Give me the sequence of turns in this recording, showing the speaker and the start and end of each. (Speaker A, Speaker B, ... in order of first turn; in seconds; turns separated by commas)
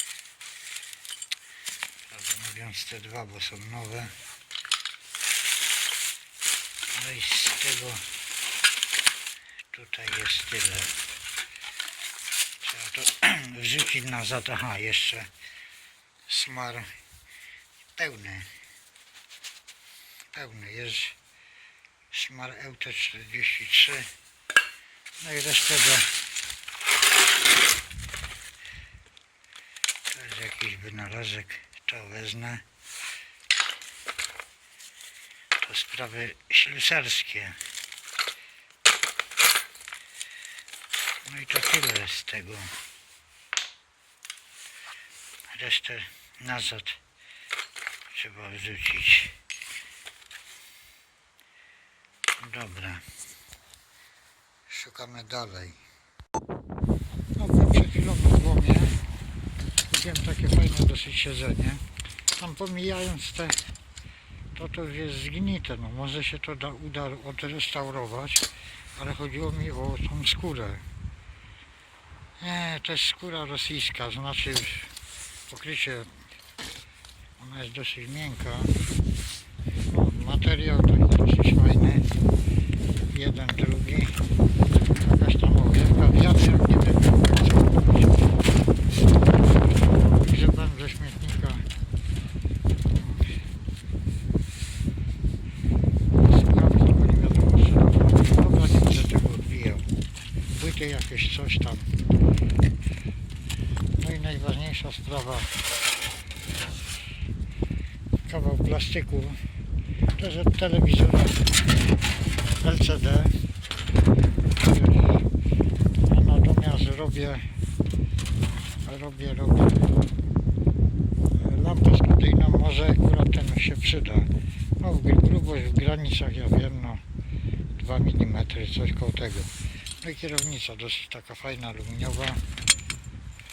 Speaker A: 2.0-4.2, Speaker A: 6.9-8.1, Speaker A: 9.7-11.0, Speaker A: 12.6-15.3, Speaker A: 16.3-16.9, Speaker A: 17.9-18.5, Speaker A: 20.3-21.2, Speaker A: 22.1-24.1, Speaker A: 25.2-26.2, Speaker A: 30.1-32.6, Speaker A: 35.6-37.6, Speaker A: 41.2-42.7, Speaker A: 45.5-47.0, Speaker A: 48.1-49.4, Speaker A: 52.4-53.0, Speaker A: 54.7-55.8, Speaker A: 57.4-59.0, Speaker A: 59.9-61.8, Speaker A: 62.4-63.6, Speaker A: 64.5-70.9, Speaker A: 72.4-74.9, Speaker A: 75.5-76.2, Speaker A: 77.4-78.8, Speaker A: 79.9-82.1, Speaker A: 83.1-84.3, Speaker A: 85.0-88.2, Speaker A: 89.9-91.7, Speaker A: 93.0-93.4, Speaker A: 96.2-99.9, Speaker A: 100.5-101.9, Speaker A: 104.0-105.6, Speaker A: 108.2-109.5, Speaker A: 110.2-111.4, Speaker A: 112.6-113.4, Speaker A: 114.6-115.3, Speaker A: 116.0-117.5, Speaker A: 118.8-119.8, Speaker A: 121.3-127.0, Speaker A: 127.8-132.4